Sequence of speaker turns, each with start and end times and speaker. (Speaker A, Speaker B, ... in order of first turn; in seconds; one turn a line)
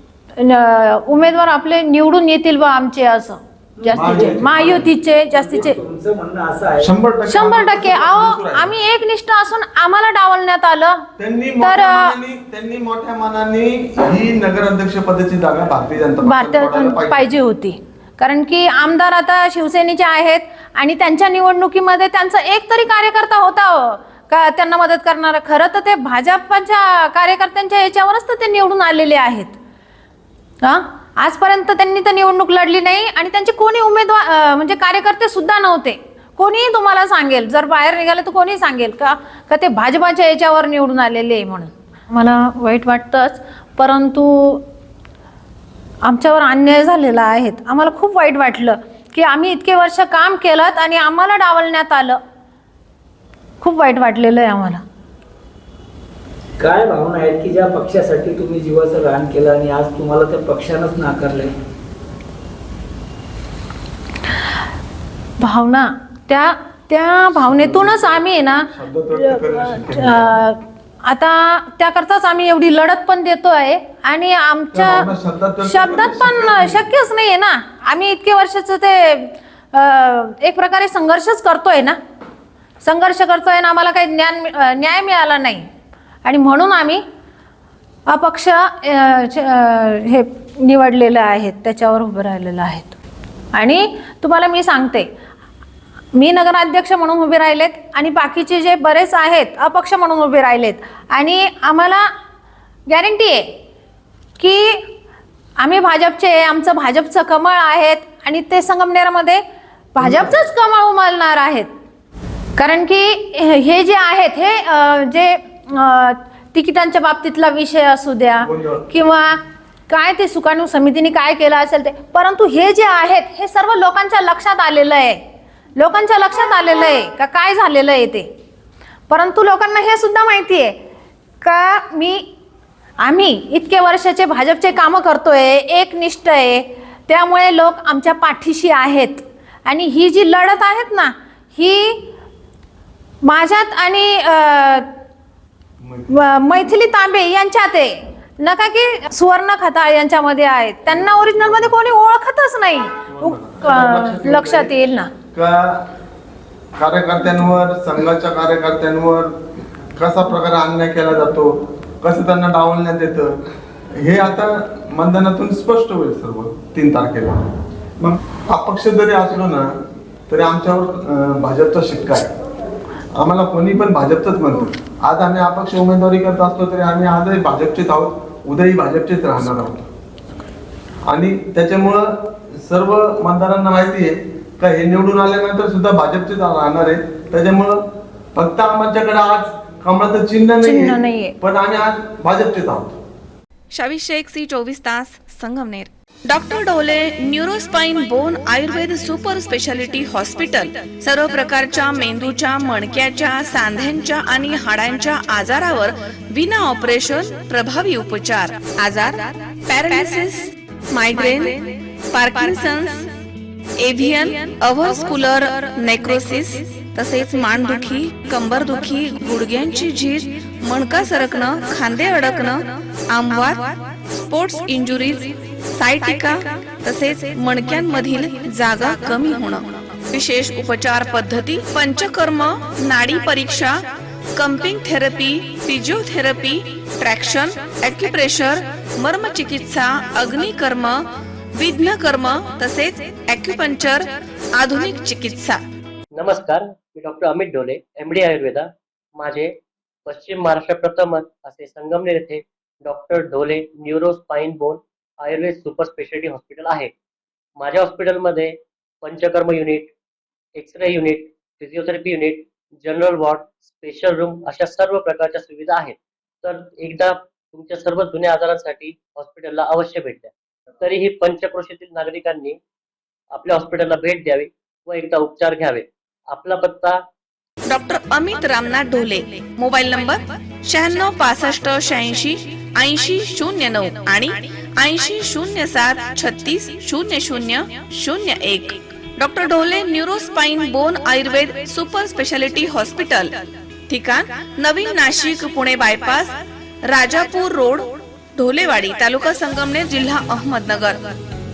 Speaker A: 0.4-5.8
Speaker B: 3.8-4.6
Speaker C: 3.9-4.9
Speaker B: 5.3-6.9
Speaker C: 6.8-8.7
Speaker A: 7.3-11.0
Speaker C: 11.2-17.4
Speaker A: 11.6-12.1
Speaker A: 16.2-29.6
Speaker A: 30.6-44.6
Speaker A: 46.0-52.2
Speaker A: 53.6-54.8
Speaker B: 56.6-61.5
Speaker A: 65.4-75.1
Speaker C: 67.3-70.5
Speaker C: 74.7-76.9
Speaker A: 75.6-82.0
Speaker A: 82.8-85.7
Speaker A: 86.2-87.0
Speaker A: 88.1-93.0
Speaker A: 93.5-95.1
Speaker A: 96.1-102.1
Speaker A: 102.9-103.5
Speaker A: 104.4-104.8
Speaker A: 105.6-109.4
Speaker A: 110.0-111.7
Speaker C: 110.0-110.3
Speaker A: 112.6-119.4
Speaker C: 118.4-118.9
Speaker A: 119.9-125.2
Speaker A: 125.8-128.3
Speaker A: 129.1-130.8
Speaker A: 131.4-132.3
Speaker A: 133.0-142.1
Speaker A: 143.2-144.9
Speaker C: 145.8-146.2
Speaker A: 146.1-155.1
Speaker C: 150.9-151.8
Speaker C: 153.1-154.7
Speaker C: 155.3-155.8
Speaker C: 156.8-159.4
Speaker C: 160.0-163.4
Speaker C: 164.0-167.4
Speaker C: 168.5-169.8
Speaker C: 170.3-172.3
Speaker C: 173.2-179.9
Speaker C: 181.1-193.0
Speaker A: 190.6-191.4
Speaker D: 193.7-213.1
Speaker D: 213.8-233.8
Speaker D: 234.3-241.0
Speaker D: 241.5-245.6
Speaker E: 246.1-249.6
Speaker E: 250.1-256.9
Speaker E: 257.6-259.9
Speaker E: 260.6-272.6
Speaker E: 273.3-277.0
Speaker D: 277.7-293.3
Speaker D: 293.9-296.4
Speaker D: 296.9-301.1